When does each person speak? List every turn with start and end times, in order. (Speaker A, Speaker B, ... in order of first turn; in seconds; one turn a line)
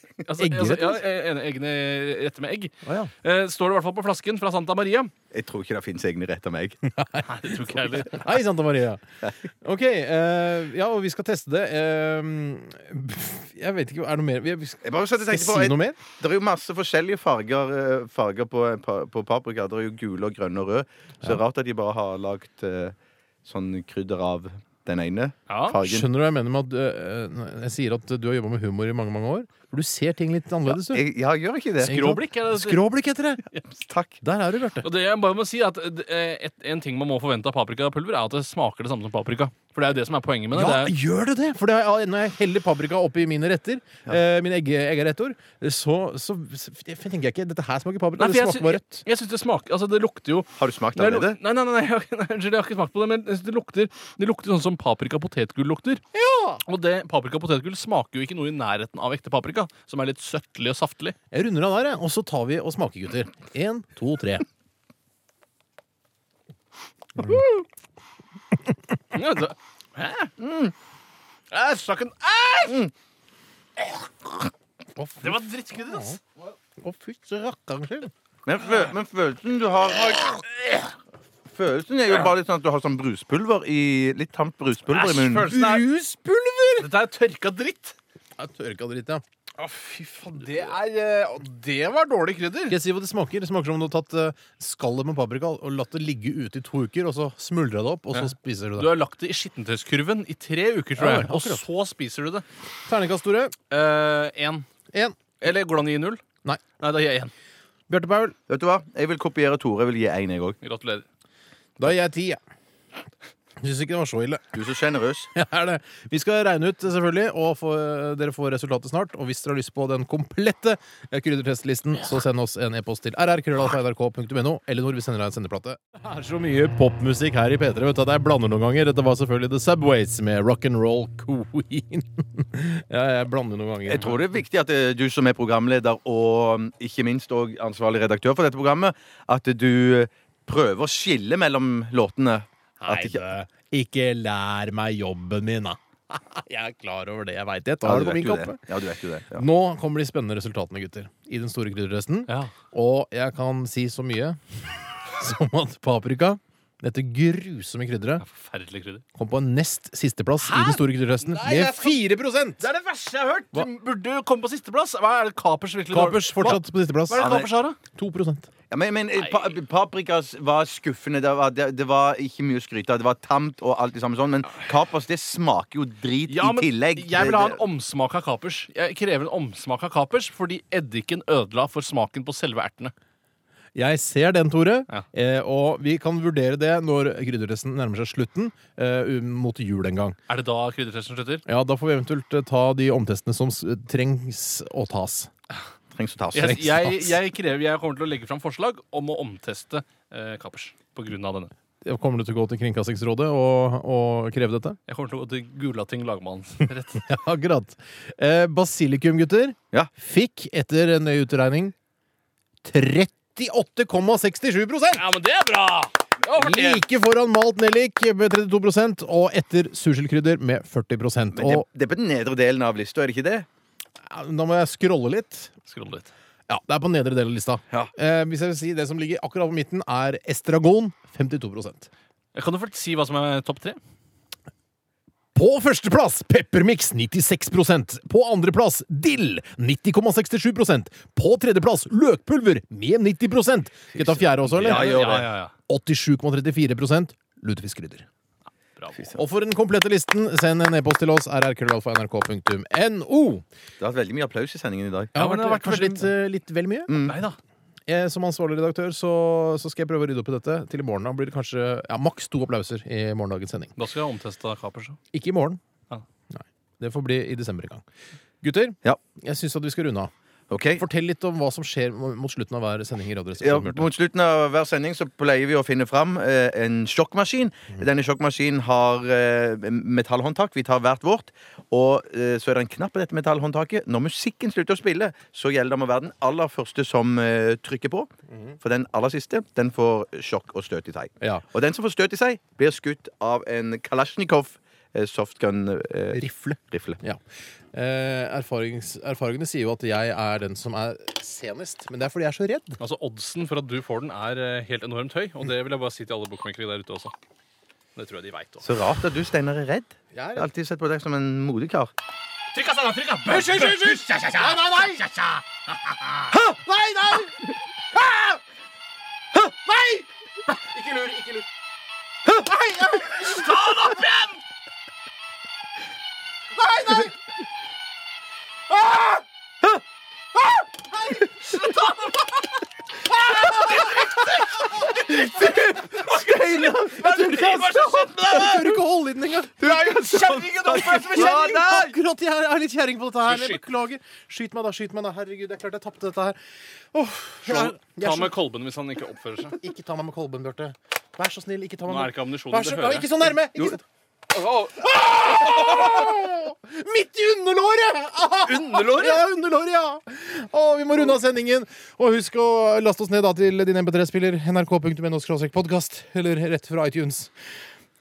Speaker A: 0.2-5.1
Speaker B: 0.4-1.1
Speaker B: 2.8-3.1
Speaker C: 5.3-6.8
Speaker B: 7.0-16.0
Speaker A: 7.2-8.4
Speaker C: 14.8-26.1
Speaker A: 25.5-25.8
Speaker B: 25.8-31.0
Speaker C: 30.7-32.0
Speaker A: 31.8-32.8
Speaker B: 31.8-33.4
Speaker C: 33.6-34.2
Speaker B: 34.2-34.9
Speaker A: 34.8-40.9
Speaker B: 40.5-49.0
Speaker A: 48.2-56.0
Speaker C: 50.6-51.4
Speaker B: 56.1-56.6
Speaker A: 56.6-61.2
Speaker B: 61.3-64.5
Speaker B: 67.2-67.5
Speaker A: 67.2-67.6
Speaker A: 69.1-70.3
Speaker C: 70.4-70.7
Speaker A: 71.5-72.8
Speaker B: 75.0-76.2
Speaker A: 75.2-76.2
Speaker B: 76.8-78.1
Speaker C: 78.5-80.4
Speaker C: 81.5-85.5
Speaker A: 84.9-85.9
Speaker B: 85.3-86.9
Speaker A: 86.8-88.0
Speaker B: 88.4-89.2
Speaker A: 89.6-92.8
Speaker B: 92.7-99.0
Speaker A: 98.1-102.4
Speaker B: 101.0-101.7
Speaker B: 102.9-103.5
Speaker A: 103.7-104.7
Speaker A: 105.4-106.2
Speaker A: 106.8-107.3
Speaker B: 107.9-108.4
Speaker C: 108.5-110.6
Speaker A: 110.6-111.0
Speaker B: 111.8-112.4
Speaker B: 113.6-114.5
Speaker C: 114.5-115.3
Speaker B: 115.3-134.3
Speaker C: 133.9-143.2
Speaker B: 142.8-148.7
Speaker C: 147.8-149.5
Speaker B: 149.3-158.2
Speaker A: 152.3-152.5
Speaker A: 158.2-159.0
Speaker B: 159.2-162.6
Speaker A: 160.4-162.0
Speaker A: 162.6-167.8
Speaker B: 165.9-167.3
Speaker C: 167.1-167.5
Speaker B: 167.9-168.5
Speaker C: 168.7-177.6
Speaker A: 169.2-169.5
Speaker A: 176.3-182.9
Speaker B: 183.8-190.2
Speaker A: 190.3-191.4
Speaker B: 191.5-195.3
Speaker C: 195.9-196.7
Speaker A: 196.3-201.5
Speaker B: 196.6-197.2
Speaker B: 201.8-204.8
Speaker A: 204.9-207.1
Speaker B: 206.9-211.7
Speaker B: 212.6-215.1
Speaker A: 214.9-216.8
Speaker B: 216.4-221.7
Speaker C: 221.3-223.5
Speaker B: 224.1-225.5
Speaker A: 225.7-226.1
Speaker B: 226.5-231.9
Speaker A: 232.3-233.8
Speaker B: 235.3-245.1
Speaker C: 243.9-245.3
Speaker A: 244.4-245.5
Speaker B: 245.7-248.1
Speaker A: 248.8-249.1
Speaker B: 249.2-253.4
Speaker C: 253.8-255.2
Speaker B: 255.2-256.9
Speaker A: 255.2-256.1
Speaker C: 256.9-257.2
Speaker A: 257.1-257.4
Speaker B: 257.9-263.8
Speaker A: 263.8-265.0
Speaker B: 265.1-265.6
Speaker B: 266.3-267.8
Speaker B: 268.4-270.1
Speaker C: 270.5-270.8
Speaker B: 270.8-273.9
Speaker C: 273.4-288.1
Speaker C: 288.6-297.0
Speaker B: 291.2-291.5
Speaker B: 296.1-297.2
Speaker B: 297.7-302.8
Speaker A: 302.8-307.1
Speaker A: 308.0-308.7
Speaker C: 308.6-311.9
Speaker B: 310.1-310.5
Speaker A: 312.5-315.4
Speaker B: 313.3-315.1
Speaker B: 316.3-318.4
Speaker B: 319.4-321.5
Speaker B: 322.3-324.1
Speaker A: 323.3-324.4
Speaker B: 326.6-327.1
Speaker B: 328.7-329.2
Speaker B: 330.4-331.7
Speaker A: 331.5-332.3
Speaker B: 333.3-333.8
Speaker A: 333.4-338.8
Speaker C: 335.1-337.5
Speaker B: 335.9-346.4
Speaker C: 339.6-341.9
Speaker A: 339.7-341.7
Speaker A: 343.2-343.6
Speaker B: 346.9-348.3
Speaker A: 347.4-349.6
Speaker B: 349.6-353.8
Speaker A: 351.9-353.8
Speaker A: 354.3-356.1
Speaker B: 354.7-367.3
Speaker A: 358.5-359.2